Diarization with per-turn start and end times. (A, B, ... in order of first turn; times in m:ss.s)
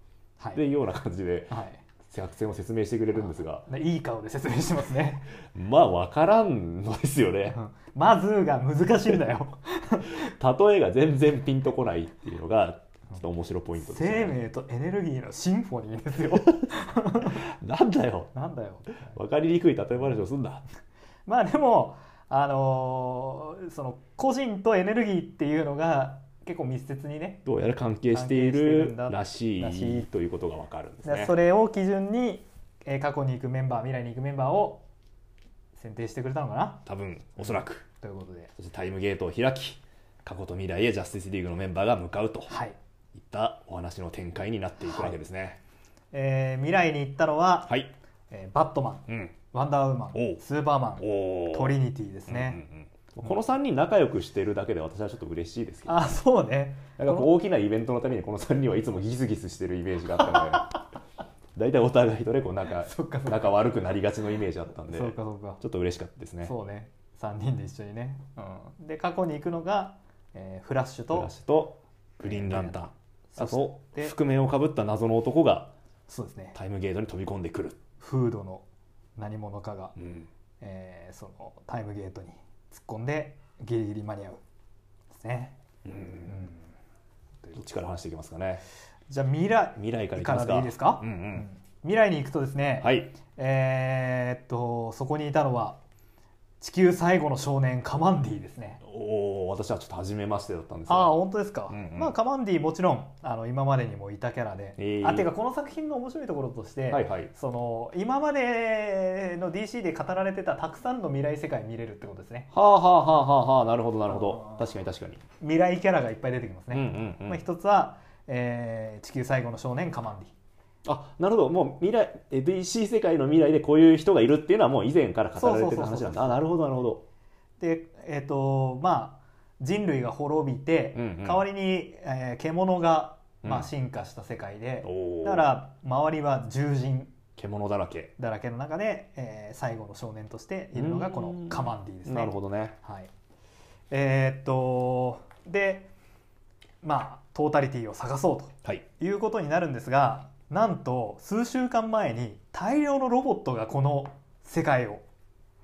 0:00.5-0:03.6 A
0:01.5-0:01.8 B
0:03.6-0:05.3 B
0:05.5-0:07.6 A
0:07.5-0:10.3 B
0:10.2-0:14.4 A
0:13.8-0:17.4 B
0:16.3-0:16.6 A
0:17.2-0:18.3 A
0:18.3-0:19.2 B
0:19.1-0:20.6 A
0:21.2-0:27.4 B
0:27.4-0:31.3 A
0:28.1-0:30.1 B
0:31.0-0:34.8 B
0:35.8-0:36.8 B
0:36.8-0:37.8 A
0:37.4-0:38.5 B
0:38.6-0:42.5 A
0:42.5-0:42.8 B
0:43.1-0:45.6 A
0:44.8-0:45.1 B
0:46.1-0:47.8 B
0:47.7-0:47.9 A
0:48.3-0:52.6 B
0:49.1-0:49.3 A
0:50.1-0:50.4 A
0:51.0-0:51.7 A
0:52.3-0:56.0 A
0:55.9-0:57.3 B
0:57.0-1:00.8 A
1:00.2-1:00.8 B
1:01.5-1:06.5 A
1:02.8-1:03.6 B
1:04.9-1:05.6 B
1:06.4-1:11.3 B
1:11.1-1:15.7 A
1:12.2-1:14.1 B
1:16.1-1:16.6 B
1:16.5-1:17.8 A
1:18.0-1:18.6 B
1:19.2-1:20.0 B
1:20.0-1:20.3 A
1:20.6-1:24.4 B
1:25.1-1:25.6 B
1:25.8-1:26.3 A
1:26.2-1:26.6 B
1:27.5-1:28.6 A
1:29.1-1:35.8 B
1:29.8-1:31.4 A
1:32.8-1:33.1 A
1:36.6-1:38.8 B
1:38.8-1:41.1 A
1:40.9-1:52.5 B
1:41.7-1:42.1 A
1:44.8-1:45.3 A
1:46.9-1:47.3 A
1:52.5-1:55.2 A
1:54.1-1:54.7 B
1:55.4-2:00.3 B
1:56.7-1:57.4 A
2:00.8-2:07.0 A
2:05.4-2:06.4 B
2:07.6-2:17.1 B
2:10.9-2:11.4 A
2:13.4-2:13.7 A
2:14.8-2:15.4 A
2:17.4-2:18.1 A
2:18.2-2:23.1 B
2:20.7-2:22.8 A
2:23.9-2:25.9 B
2:26.8-2:35.0 B